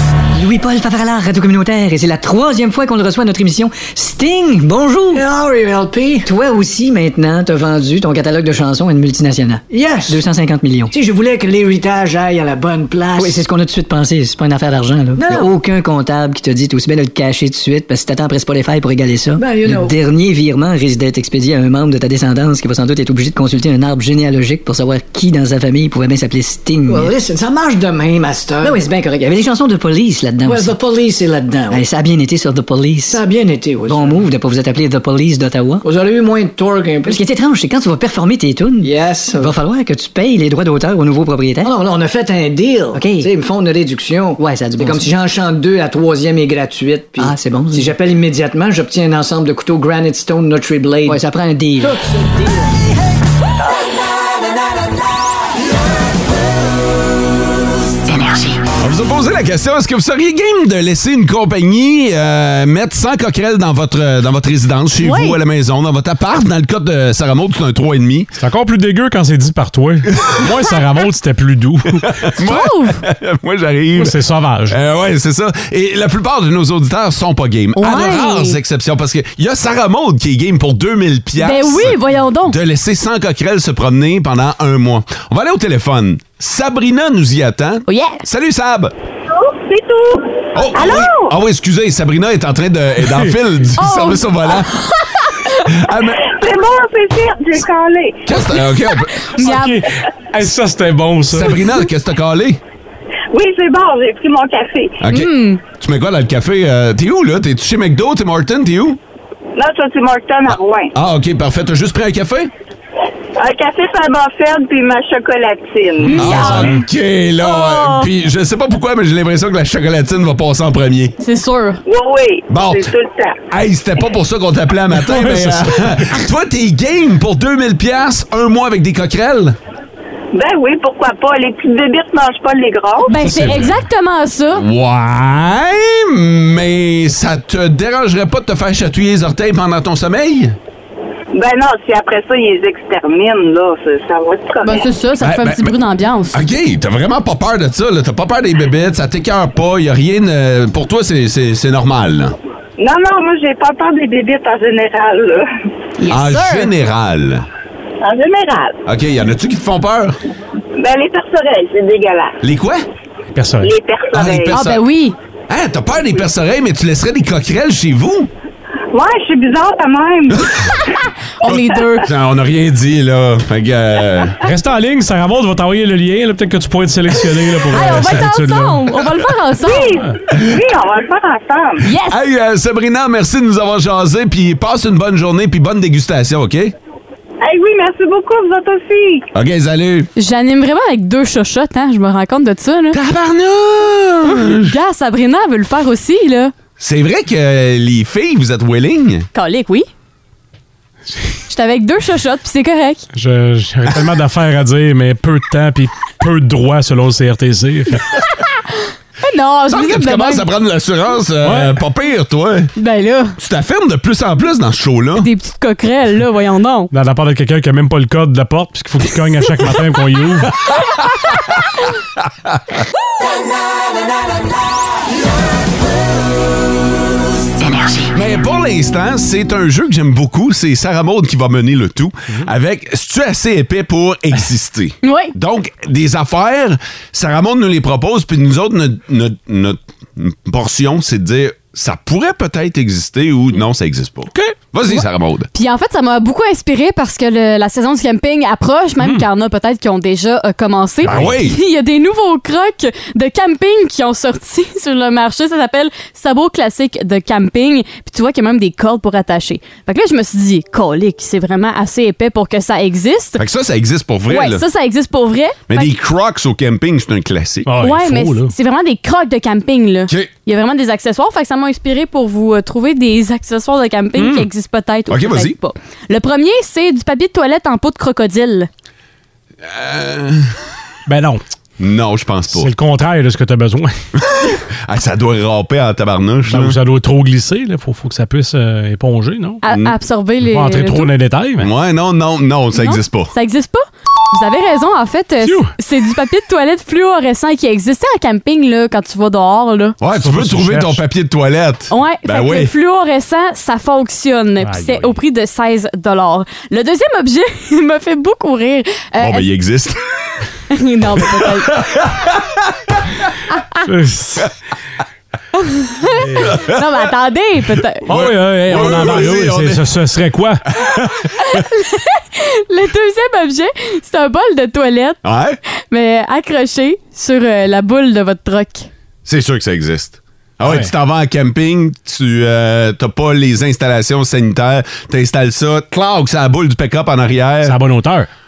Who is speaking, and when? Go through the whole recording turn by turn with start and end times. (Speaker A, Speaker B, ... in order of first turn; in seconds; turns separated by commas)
Speaker A: 0.3-5.2, Speaker B: 5.1-6.3, Speaker A: 6.2-10.9, Speaker B: 9.7-10.2, Speaker B: 10.9-13.4, Speaker A: 13.1-27.1, Speaker B: 15.2-15.5, Speaker B: 19.4-19.9, Speaker B: 26.9-28.9, Speaker A: 28.6-30.7, Speaker B: 30.4-31.8, Speaker A: 31.7-33.2, Speaker B: 33.1-34.2, Speaker A: 33.9-35.8, Speaker B: 35.8-37.2, Speaker A: 37.0-41.7, Speaker B: 38.8-39.5, Speaker B: 41.6-51.2, Speaker A: 42.9-43.3, Speaker A: 44.4-45.1, Speaker A: 47.2-47.9, Speaker A: 51.0-52.0, Speaker B: 51.8-52.7, Speaker C: 58.8-68.3, Speaker D: 65.0-65.4, Speaker E: 68.3-72.1, Speaker C: 72.0-74.2, Speaker D: 72.4-73.0, Speaker E: 74.0-74.8, Speaker C: 74.7-88.9, Speaker D: 77.8-78.6, Speaker D: 81.4-82.6, Speaker D: 87.9-88.2, Speaker F: 89.3-91.3, Speaker C: 90.5-94.7, Speaker D: 93.8-95.6, Speaker C: 95.6-96.3, Speaker F: 96.2-98.3, Speaker C: 98.2-99.3, Speaker D: 99.2-99.8, Speaker E: 99.4-101.6, Speaker C: 101.3-102.6, Speaker F: 103.3-105.0, Speaker C: 105.0-109.0, Speaker D: 105.1-105.6, Speaker F: 109.5-110.9, Speaker C: 110.5-112.5, Speaker F: 113.4-116.2, Speaker E: 116.0-116.8, Speaker C: 116.1-121.2, Speaker D: 116.2-116.8, Speaker D: 117.4-118.1, Speaker D: 121.2-121.8, Speaker F: 121.8-123.3, Speaker C: 122.5-122.9, Speaker C: 123.5-129.6, Speaker E: 125.0-126.1, Speaker F: 130.3-133.2, Speaker D: 133.0-134.6, Speaker C: 133.2-133.7, Speaker C: 134.6-140.6, Speaker F: 141.3-144.9, Speaker D: 144.6-146.4, Speaker C: 145.2-145.8, Speaker C: 146.3-152.3, Speaker F: 152.8-155.5, Speaker D: 156.0-156.7, Speaker C: 156.1-157.4, Speaker F: 158.0-158.8, Speaker C: 158.8-160.2, Speaker F: 160.8-162.4, Speaker C: 162.4-162.8, Speaker E: 163.3-163.7, Speaker F: 163.6-164.6, Speaker C: 164.1-164.8, Speaker D: 164.5-165.2, Speaker C: 165.5-168.3, Speaker F: 168.9-170.8, Speaker D: 171.4-172.1, Speaker C: 171.4-174.4, Speaker E: 174.4-178.9, Speaker D: 177.7-180.0, Speaker F: 179.6-181.9, Speaker D: 181.8-182.2, Speaker C: 182.0-186.7, Speaker F: 187.4-189.3, Speaker C: 189.3-190.1, Speaker D: 190.2-193.0, Speaker C: 192.9-194.7, Speaker D: 194.6-196.5, Speaker C: 196.8-199.3, Speaker D: 199.3-199.9, Speaker D: 201.5-203.0, Speaker E: 203.1-208.0, Speaker D: 209.2-210.4, Speaker C: 209.7-212.7, Speaker E: 211.4-211.8, Speaker D: 212.8-213.4, Speaker C: 213.4-215.3, Speaker D: 215.2-216.9, Speaker E: 216.9-220.5, Speaker C: 220.6-221.4, Speaker C: 228.1-245.5, Speaker D: 235.0-235.3, Speaker D: 244.9-263.4, Speaker E: 249.0-249.2, Speaker C: 251.0-251.6, Speaker C: 263.4-264.6, Speaker D: 264.3-265.9, Speaker C: 265.7-267.7, Speaker E: 267.6-268.5, Speaker D: 267.8-278.7, Speaker E: 274.1-274.5, Speaker C: 275.1-275.5, Speaker C: 279.6-280.5, Speaker E: 281.1-281.4, Speaker C: 281.8-282.7, Speaker E: 282.5-284.0, Speaker C: 284.2-286.8, Speaker E: 286.4-289.6, Speaker D: 289.6-291.1, Speaker C: 289.7-289.9, Speaker E: 290.4-291.7, Speaker C: 291.6-293.3, Speaker D: 292.7-300.0, Speaker E: 295.4-295.7, Speaker C: 300.0-302.7, Speaker E: 300.1-301.0, Speaker D: 301.9-309.4, Speaker E: 304.6-305.2, Speaker C: 309.2-310.0, Speaker D: 310.7-311.8, Speaker C: 311.2-313.3, Speaker E: 313.8-314.5, Speaker D: 315.6-318.0, Speaker C: 316.4-316.8, Speaker C: 318.1-319.8, Speaker E: 318.1-320.6, Speaker C: 320.7-321.3, Speaker D: 321.5-325.2, Speaker C: 325.2-325.6, Speaker D: 325.9-328.9, Speaker C: 329.2-337.8, Speaker E: 330.6-330.9, Speaker E: 337.6-338.3